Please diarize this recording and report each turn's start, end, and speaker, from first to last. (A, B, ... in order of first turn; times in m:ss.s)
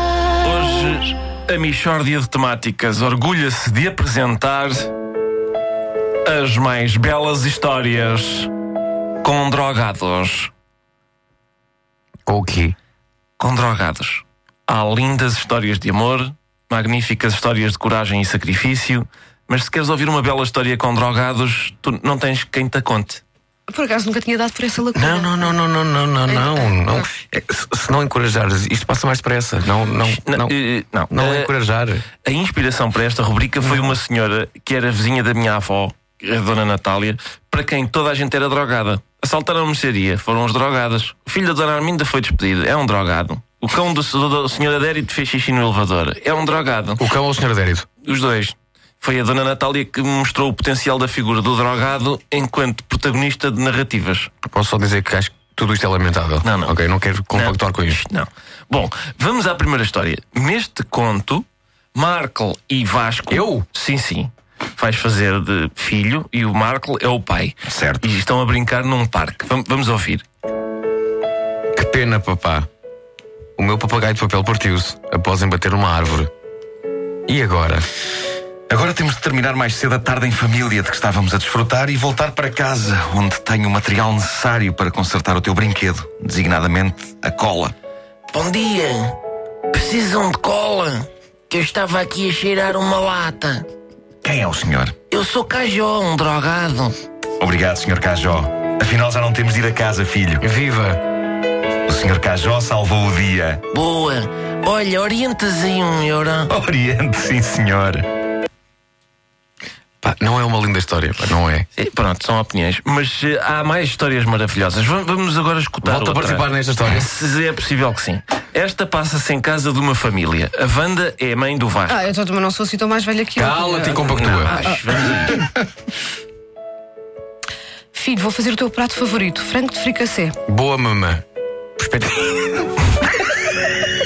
0:00.4-0:04.9 A
0:06.2-0:08.5 A
0:09.2-0:10.5 A
0:12.2-0:12.7 B
0:13.4-0:23.2 A
0:23.7-0:25.6 C
0:24.9-0:30.5 B
0:26.2-0:27.1 C
0:30.0-0:31.5 A
0:31.1-0:32.0 B
0:32.2-0:47.0 A
0:47.0-0:47.8 B
0:48.0-0:54.3 A
0:54.5-0:58.0 B
0:56.4-0:56.8 A
0:57.3-1:10.2 A
1:03.3-1:03.6 B
1:07.7-1:08.1 D
1:11.8-1:12.7 B
1:13.6-1:16.3 B
1:17.3-1:17.9 B
1:18.7-1:27.7 D
1:28.3-1:29.2 A
1:29.7-1:33.6 A
1:34.2-1:34.9 D
1:35.1-1:37.0 A
1:37.4-1:40.4 D
1:40.4-1:41.0 B
1:41.8-1:43.6 D
1:43.7-1:46.5 A
1:46.5-1:48.0 D
1:50.0-1:51.7 B
1:51.8-2:02.0 A
1:55.8-1:57.0 B
2:01.9-2:04.8 C
2:03.4-2:04.6 B
2:04.1-2:05.4 A
2:07.9-2:10.4 C
2:10.5-2:11.2 B
2:11.8-2:12.8 B